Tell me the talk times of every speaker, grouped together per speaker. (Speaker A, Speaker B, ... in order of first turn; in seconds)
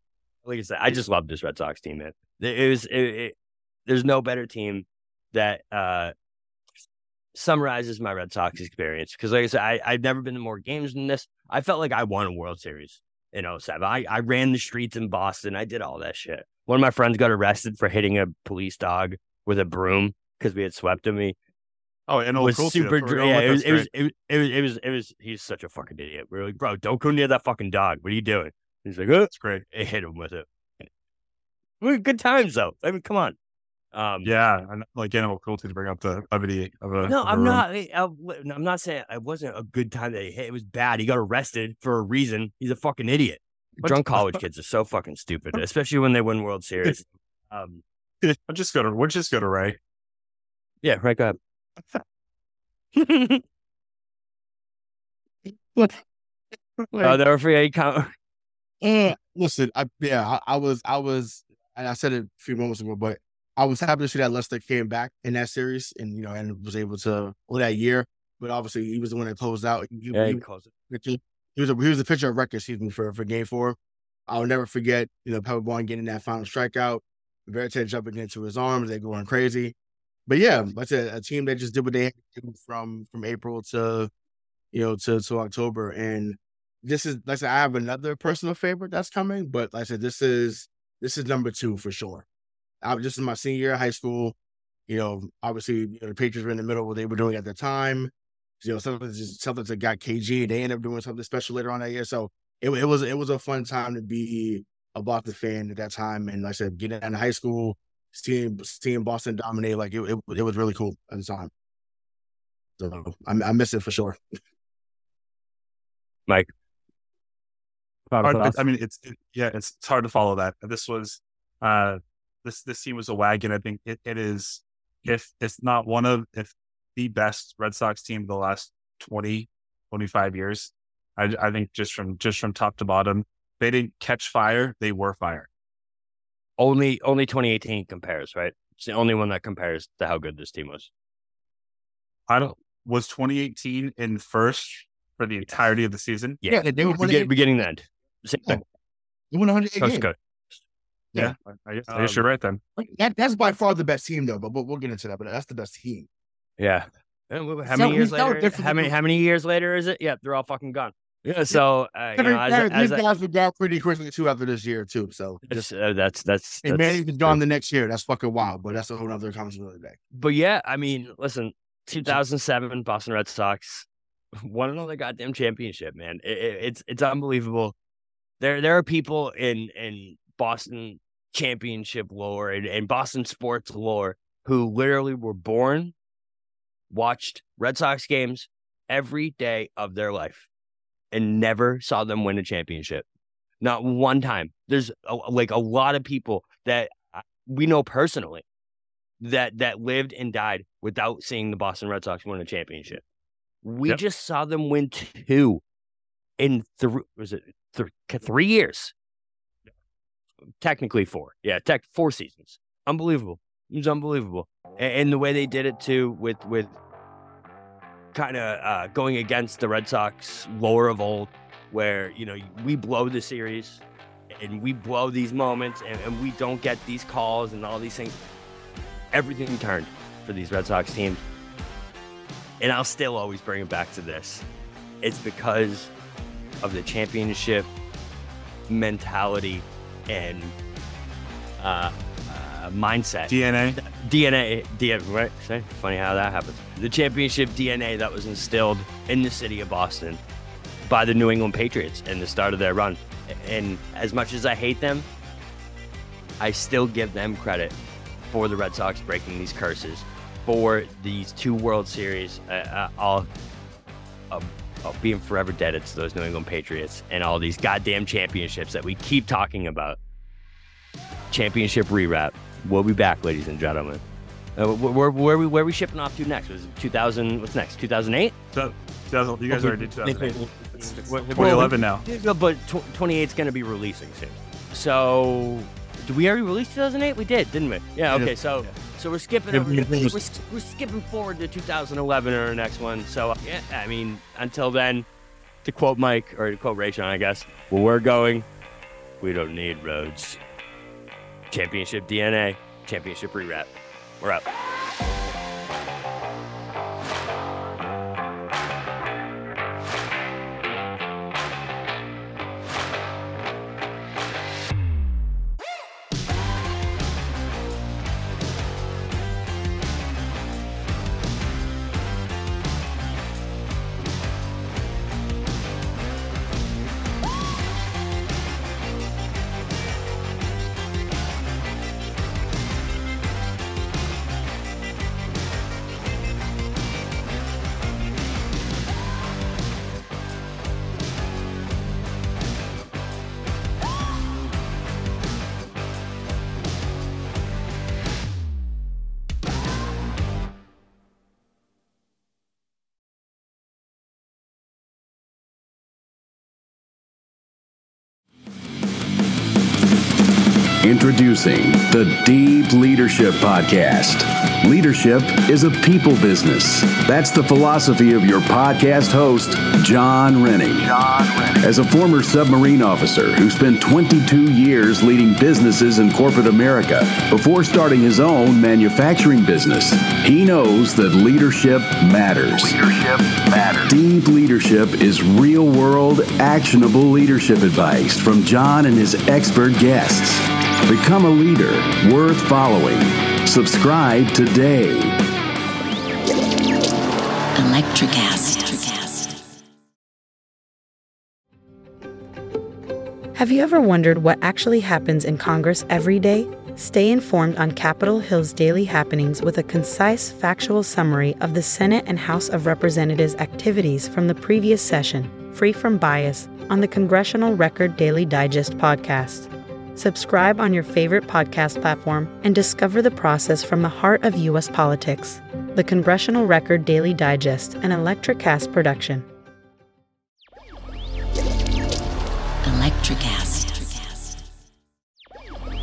Speaker A: 0.5-3.4, 3.9-6.1, 7.3-21.4, 22.4-30.9, 31.8-33.4, 33.9-34.3, 37.1-47.8, 50.8-51.4, 53.0-53.4, 57.0-58.1, 70.1-70.7, 118.1-118.6, 136.6-140.9, 146.4-148.6, 149.8-150.6, 156.6-163.0, 165.4-167.4, 170.1-177.8, 178.4-185.9, 186.9-190.5, 191.1-193.1, 193.6-198.4, 199.2-203.0, 203.6-205.6, 206.4-208.9, 210.6-216.8, 218.1-228.2, 229.1-231.2, 232.6-234.4, 235.0-235.9, 236.6-237.7, 238.7-240.6, 241.6-250.2, 250.9-255.1, 256.4-257.8, 258.3-263.3, 264.3-270.0, 271.3-274.0, 274.6-278.4, 281.1-295.1, 295.6-298.5, 299.2-300.4, 301.5-304.4
Speaker B: 22.1-23.9, 29.3-29.6, 34.2-37.6, 43.8-44.4, 48.2-49.8, 118.2-135.5, 142.3-146.4, 151.2-152.6, 243.3-243.8, 278.5-282.0
Speaker C: 55.5-56.0, 56.9-57.2, 58.8-73.8, 74.3-79.7, 80.3-84.1, 84.7-92.3, 92.8-94.3, 94.9-111.5, 112.8-114.2, 146.5-147.3, 149.3-150.1, 151.9-152.2, 152.8-156.1, 157.7-158.9, 162.2-165.4, 166.7-170.0, 279.5-281.8, 289.5-290.2
Speaker D: 360.8-395.2
Speaker E: 397.6-399.4, 432.6-434.4
Speaker F: 403.4-429.3